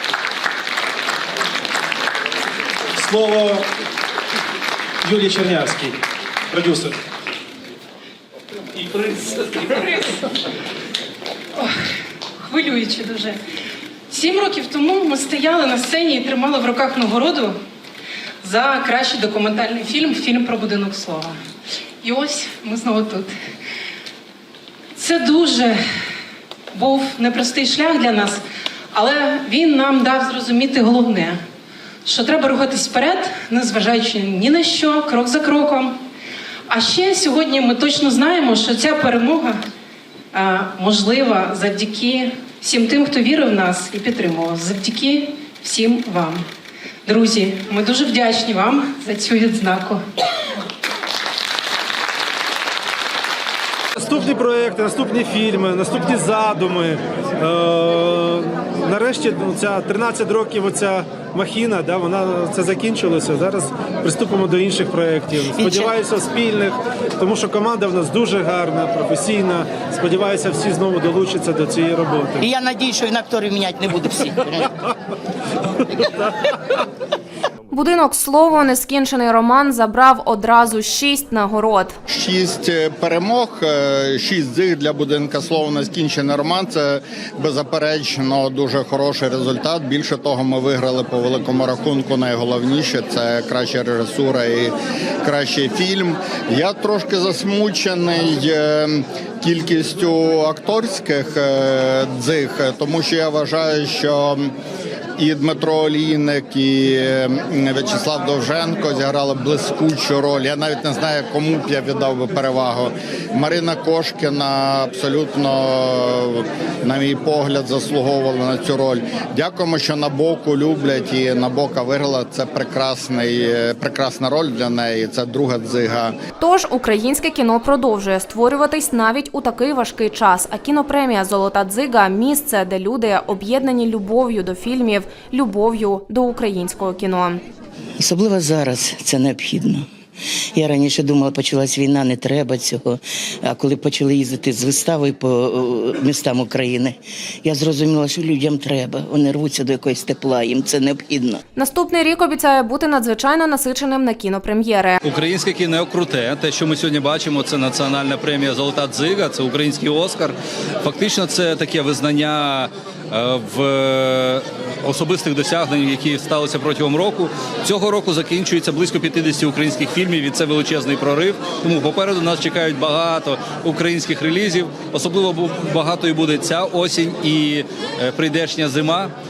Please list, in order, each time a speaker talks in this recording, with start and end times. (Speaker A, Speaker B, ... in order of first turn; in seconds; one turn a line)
Speaker A: 3.0-3.7
Speaker A: 5.0-6.0
Speaker A: 6.5-7.0
Speaker B: 9.3-10.2
Speaker B: 12.4-13.4
Speaker B: 14.1-17.6
Speaker B: 18.4-21.4
Speaker B: 22.0-23.3
Speaker B: 25.0-25.8
Speaker B: 26.7-28.4
Speaker B: 28.9-31.4
Speaker B: 32.0-36.0
Speaker B: 36.7-39.6
Speaker B: 40.3-46.5
Speaker B: 47.0-50.0
Speaker A: 54.0-72.5
Speaker C: 65.5-65.9
Speaker C: 72.4-74.7
Speaker D: 77.7-82.0
Speaker E: 82.1-104.5
Speaker E: 105.2-126.2
Speaker D: 126.4-137.4
Speaker C: 138.0-139.9
Speaker C: 140.6-151.4
Speaker D: 151.6-155.0
Speaker F: 155.0-179.1